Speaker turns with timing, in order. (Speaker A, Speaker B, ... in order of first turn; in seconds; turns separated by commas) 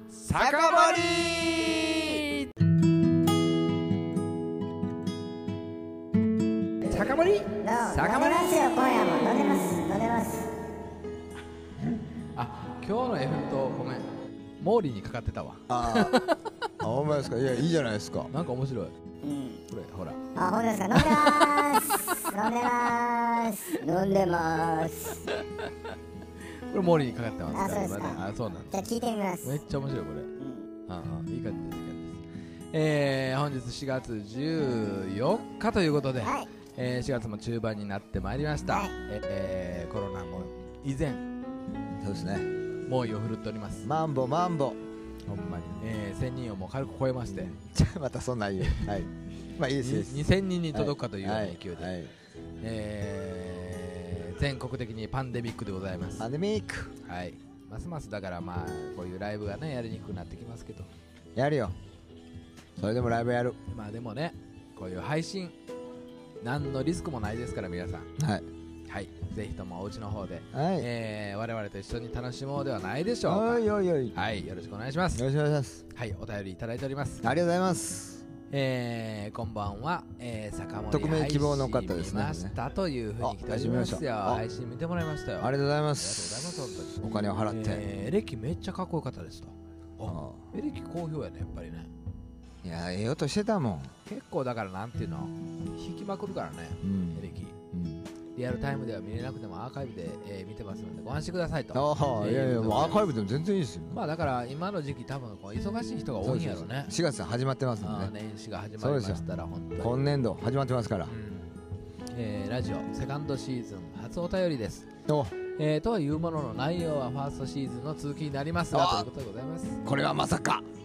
Speaker A: 0.1-1.8, Speaker B: 0.3-2.2, Speaker A: 6.8-8.8, Speaker C: 7.6-10.5, Speaker A: 12.3-14.1, Speaker A: 14.6-16.7, Speaker B: 15.7-18.3, Speaker A: 18.3-18.9, Speaker C: 19.2-19.6, Speaker A: 19.7-20.2, Speaker C: 20.4-25.3, Speaker A: 20.9-22.3, Speaker A: 25.2-25.7, Speaker A: 26.4-30.3, Speaker C: 27.5-28.2, Speaker C: 28.7-29.6, Speaker A: 30.9-41.3, Speaker C: 36.2-36.5, Speaker C: 38.6-38.9, Speaker B: 42.0-42.5, Speaker A: 42.8-43.9, Speaker B: 43.8-44.8, Speaker A: 45.3-47.6, Speaker B: 47.3-52.1, Speaker A: 48.7-49.0, Speaker A: 49.7-52.0, Speaker A: 52.6-56.3, Speaker B: 56.2-56.9, Speaker A: 57.0-60.9, Speaker B: 61.3-61.8, Speaker B: 62.8-63.6, Speaker A: 63.7-65.5, Speaker A: 66.4-68.1, Speaker B: 68.2-68.5, Speaker A: 68.9-75.2, Speaker B: 70.5-70.9, Speaker B: 73.2-74.2, Speaker B: 75.1-75.8, Speaker A: 75.9-77.4, Speaker B: 77.2-78.2, Speaker A: 78.5-91.9, Speaker B: 80.9-82.5, Speaker B: 83.2-84.4, Speaker B: 85.4-87.9, Speaker B: 90.0-90.5, Speaker B: 92.6-94.0, Speaker A: 94.0-97.6, Speaker B: 96.8-98.1, Speaker A: 98.3-103.1, Speaker B: 101.7-104.0, Speaker A: 103.9-107.0, Speaker B: 106.2-108.1, Speaker A: 107.8-110.1, Speaker B: 108.8-109.2, Speaker B: 109.8-111.1, Speaker A: 111.1-111.5, Speaker A: 112.1-114.9, Speaker B: 115.1-115.4, Speaker A: 115.4-119.8, Speaker B: 118.7-119.1, Speaker B: 119.8-120.6